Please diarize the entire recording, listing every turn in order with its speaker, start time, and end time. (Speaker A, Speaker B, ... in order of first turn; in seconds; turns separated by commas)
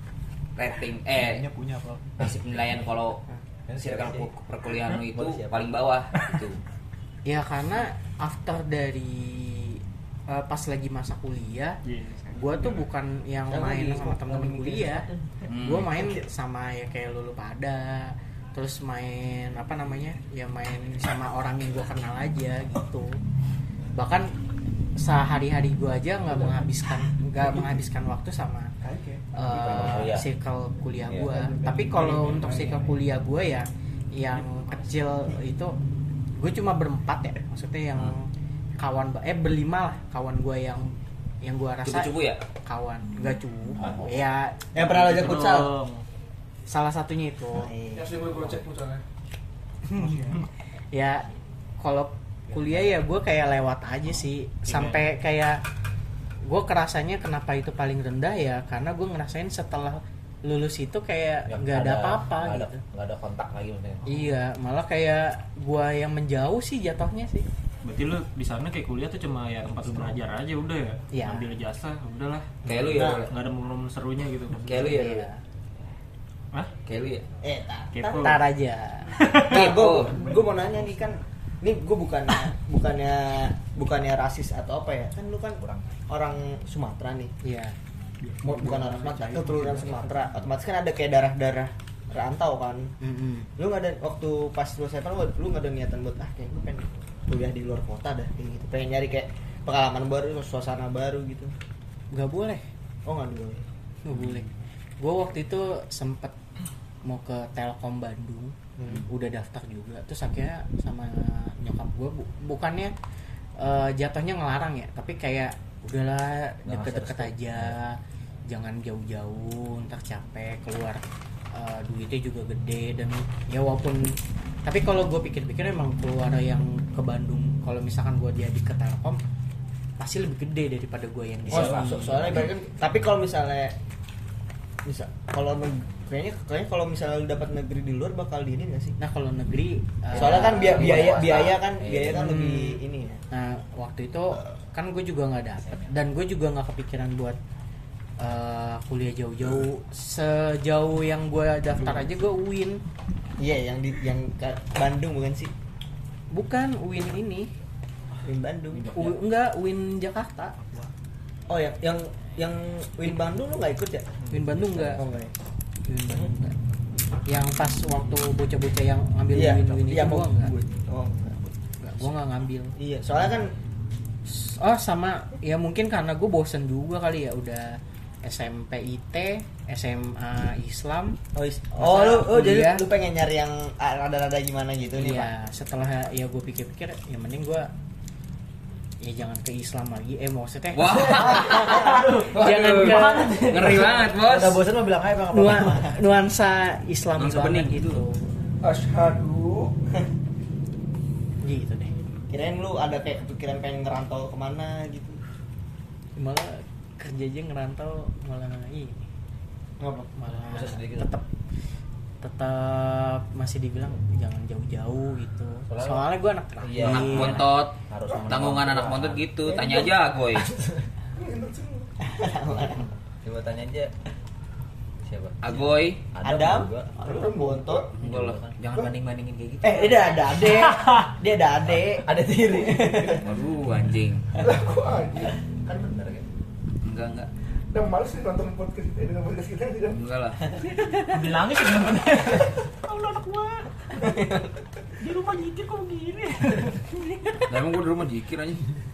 Speaker A: 0.6-1.5, Speaker B: 1.1-2.1, Speaker A: 2.2-3.2, Speaker C: 3.7-4.3, Speaker A: 3.8-6.6, Speaker C: 5.0-5.7, Speaker D: 7.2-11.8, Speaker E: 11.8-12.8, Speaker D: 12.3-23.2, Speaker F: 13.5-15.2, Speaker A: 15.5-16.0, Speaker D: 23.9-24.3, Speaker D: 25.0-28.7, Speaker G: 28.8-29.2, Speaker D: 29.3-35.8, Speaker C: 29.4-30.3, Speaker G: 31.3-33.0, Speaker D: 36.4-42.1, Speaker A: 41.9-42.4, Speaker D: 42.7-44.6, Speaker F: 44.7-45.7, Speaker E: 44.8-46.0, Speaker D: 46.7-47.7, Speaker F: 47.5-48.6, Speaker G: 48.0-49.0, Speaker D: 49.9-50.4, Speaker D: 50.9-51.3, Speaker D: 51.8-55.6, Speaker E: 54.7-55.0, Speaker D: 56.5-62.8, Speaker C: 61.5-64.2, Speaker D: 64.1-67.5, Speaker E: 67.8-72.7, Speaker D: 71.1-71.5, Speaker A: 72.6-73.3, Speaker F: 72.9-73.3, Speaker E: 73.3-75.0, Speaker A: 74.5-75.3, Speaker D: 74.7-75.4, Speaker A: 76.9-77.3, Speaker F: 77.4-78.4, Speaker E: 77.9-78.4, Speaker D: 78.2-79.3, Speaker E: 79.1-79.7, Speaker A: 79.4-80.2, Speaker F: 79.4-87.3, Speaker G: 80.1-80.5, Speaker C: 85.6-85.9, Speaker D: 87.4-87.8, Speaker G: 88.2-90.1, Speaker F: 88.4-92.9, Speaker D: 93.0-93.5, Speaker F: 93.6-101.5, Speaker D: 102.1-102.6, Speaker F: 103.0-103.7, Speaker D: 104.0-104.5, Speaker D: 105.0-106.3, Speaker D: 107.0-112.9, Speaker F: 108.8-109.0, Speaker D: 113.6-118.0, Speaker C: 116.7-117.8, Speaker D: 118.5-129.2, Speaker D: 130.0-132.4, Speaker C: 131.5-132.5, Speaker F: 131.5-133.8, Speaker F: 134.8-138.9, Speaker D: 139.0-141.2, Speaker F: 140.1-143.2, Speaker C: 140.1-142.2, Speaker D: 142.1-142.8, Speaker D: 143.3-147.4, Speaker C: 145.6-145.9, Speaker D: 148.2-152.8, Speaker F: 153.4-155.5, Speaker D: 156.3-157.5, Speaker F: 158.2-158.9, Speaker D: 158.9-160.5, Speaker F: 161.5-164.2, Speaker D: 164.3-165.0, Speaker C: 164.3-165.0, Speaker F: 164.9-165.3, Speaker D: 165.8-166.6, Speaker D: 167.3-170.5, Speaker F: 169.3-171.4, Speaker D: 171.8-172.8, Speaker F: 172.8-173.5, Speaker D: 174.3-181.2, Speaker F: 181.3-185.3, Speaker D: 181.8-182.9, Speaker D: 185.0-187.7, Speaker D: 189.0-193.9, Speaker A: 190.7-194.7, Speaker C: 192.5-196.0, Speaker D: 195.3-198.3, Speaker A: 197.2-198.0, Speaker G: 198.6-199.7, Speaker D: 201.4-202.0, Speaker F: 202.3-205.2, Speaker D: 206.2-209.1, Speaker F: 209.8-210.1, Speaker D: 210.2-211.2, Speaker C: 210.3-211.1, Speaker D: 212.2-217.5, Speaker C: 215.7-219.7, Speaker A: 216.8-220.5, Speaker G: 219.5-219.9, Speaker C: 220.3-220.8, Speaker G: 221.2-221.9, Speaker F: 222.0-222.9, Speaker C: 223.2-223.9, Speaker C: 225.0-226.9, Speaker A: 225.4-226.0, Speaker F: 226.2-227.9, Speaker G: 227.0-227.9, Speaker A: 228.0-229.7, Speaker C: 228.0-228.6, Speaker B: 228.7-230.1, Speaker F: 229.6-233.2, Speaker E: 230.6-231.1, Speaker C: 231.7-233.2, Speaker A: 233.2-234.3, Speaker G: 234.4-235.4, Speaker C: 235.7-236.2, Speaker A: 236.8-237.3, Speaker G: 237.7-240.0, Speaker A: 239.9-240.4, Speaker E: 241.1-244.0, Speaker F: 244.0-244.5, Speaker E: 245.0-246.8, Speaker A: 247.5-248.7